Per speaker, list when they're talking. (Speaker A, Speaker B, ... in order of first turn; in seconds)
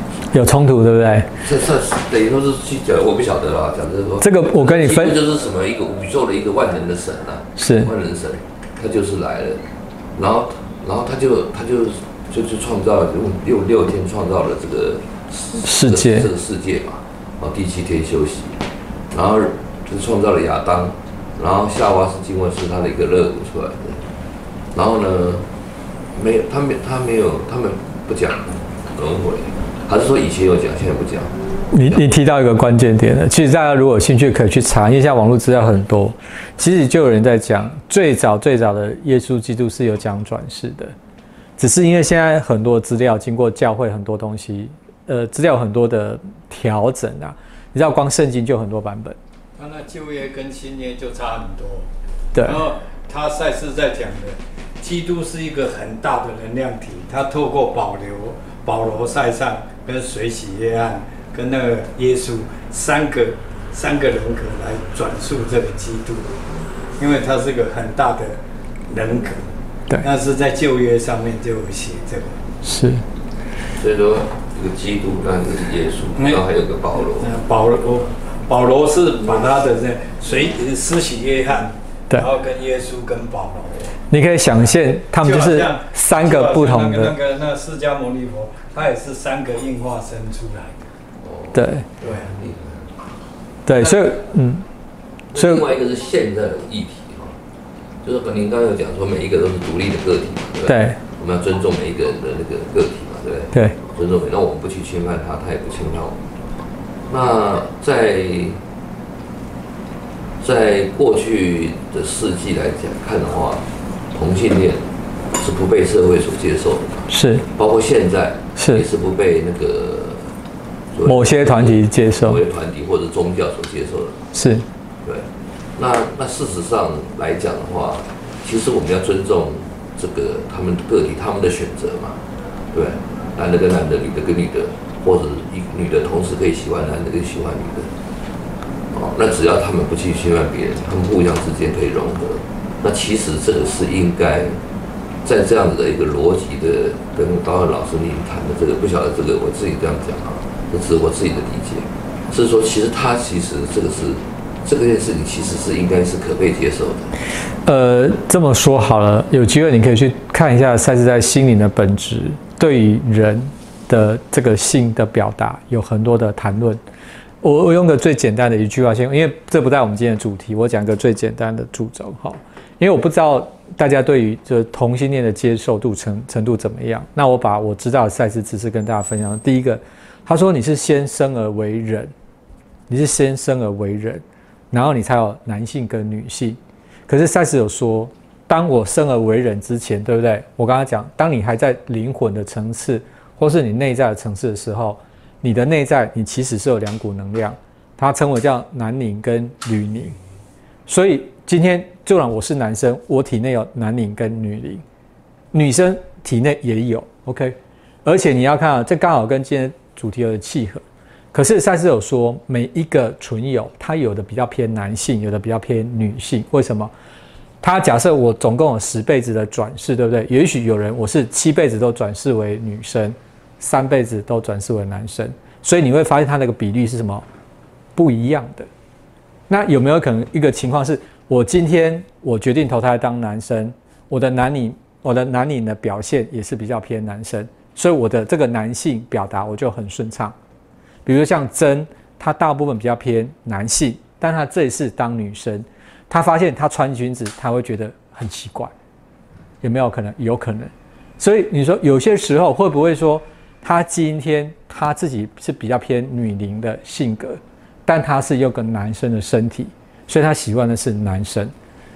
Speaker A: 0.3-1.4, 4.2-5.2, 7.6-7.9, 15.6-16.3, 31.7-40.9, 41.6-49.2, 52.3-52.6, 72.6-73.0, 84.1-87.2, 91.5-91.8, 93.7-94.7, 95.3-95.7, 100.7-101.0, 117.1-117.5, 118.5-118.8, 121.0-122.4, 124.3-124.7, 157.6-166.8, 167.4-182.1, 182.9-200.2, 200.9-204.8, 205.5-216.9, 217.6-227.2, 227.9-228.7, 229.5-240.3, 241.1-248.7, 249.6-261.5
Speaker B: 1.4-24.0, 24.7-25.5, 26.1-31.3, 73.7-77.4, 91.2-92.9, 95.3-97.4, 98.0-106.2, 107.1-108.6, 110.4-120.3, 120.9-124.3, 125.0-132.2, 132.7-137.9, 138.9-144.6, 145.2-157.1
Speaker C: 49.6-66.4, 67.0-69.5, 70.0-72.4, 76.2-76.4, 77.1-84.0, 84.7-90.8, 93.8-94.0